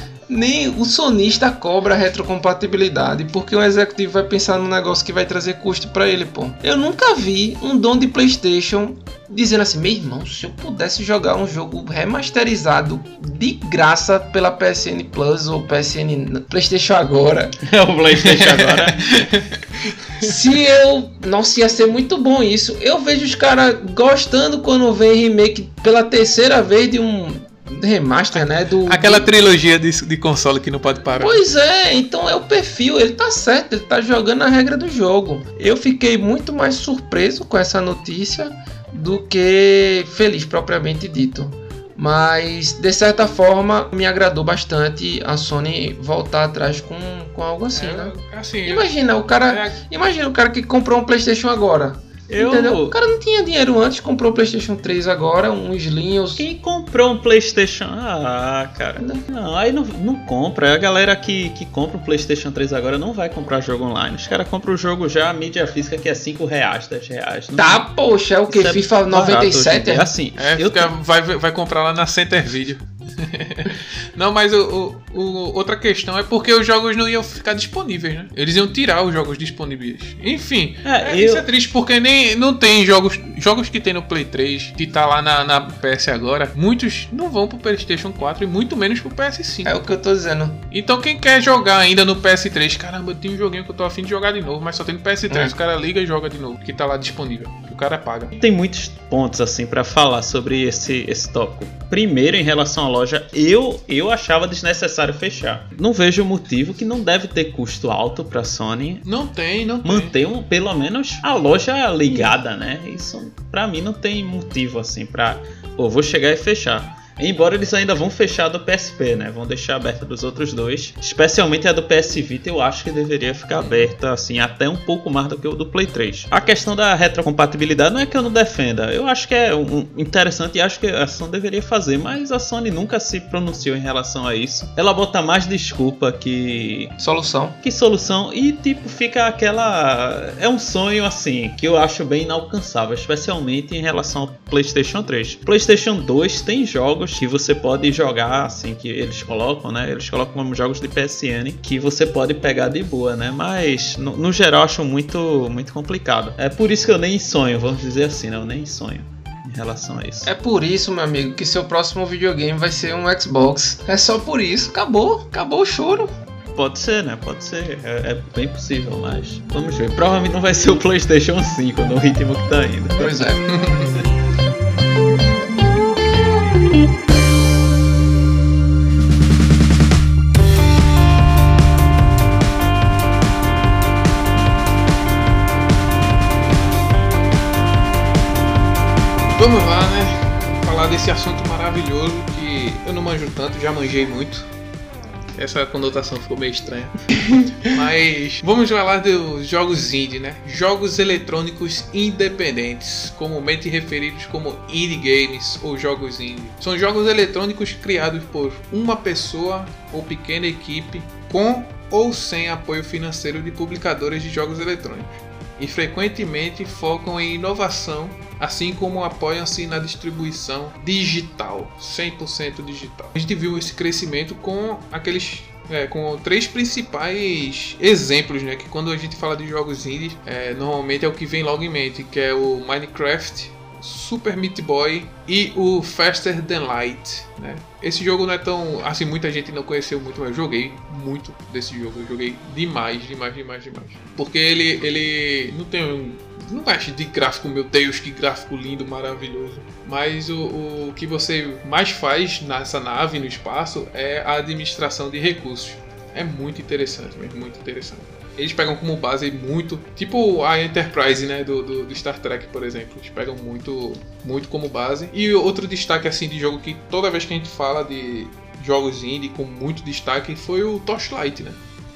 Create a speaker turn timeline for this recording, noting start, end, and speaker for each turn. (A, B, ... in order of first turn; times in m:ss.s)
0:00.3-0:17.6 A
0:17.6-0:19.3 B
0:18.2-0:20.3 C
0:20.2-0:29.3 A
0:28.4-0:31.4 C
0:31.2-0:48.1 A
0:47.7-0:49.8 C
0:48.7-0:56.4 A
0:52.3-0:53.0 B
0:56.4-1:07.9 B
0:59.0-0:59.2 A
1:07.6-1:10.1 A
1:08.5-1:10.9 B
1:10.4-1:29.8 C
1:20.8-1:21.5 B
1:29.6-1:30.6 A
1:30.7-1:38.3 C
1:38.3-1:49.0 B
1:49.0-1:50.2 C
1:49.8-2:16.9 B
2:03.6-2:03.9 C
2:17.0-2:17.6 A
2:17.6-2:40.3 B
2:40.2-2:46.2 A
2:46.6-2:53.1 B
2:53.0-2:53.5 A
2:53.5-2:54.0 C
3:09.2-3:14.5 C
3:15.4-4:31.6 C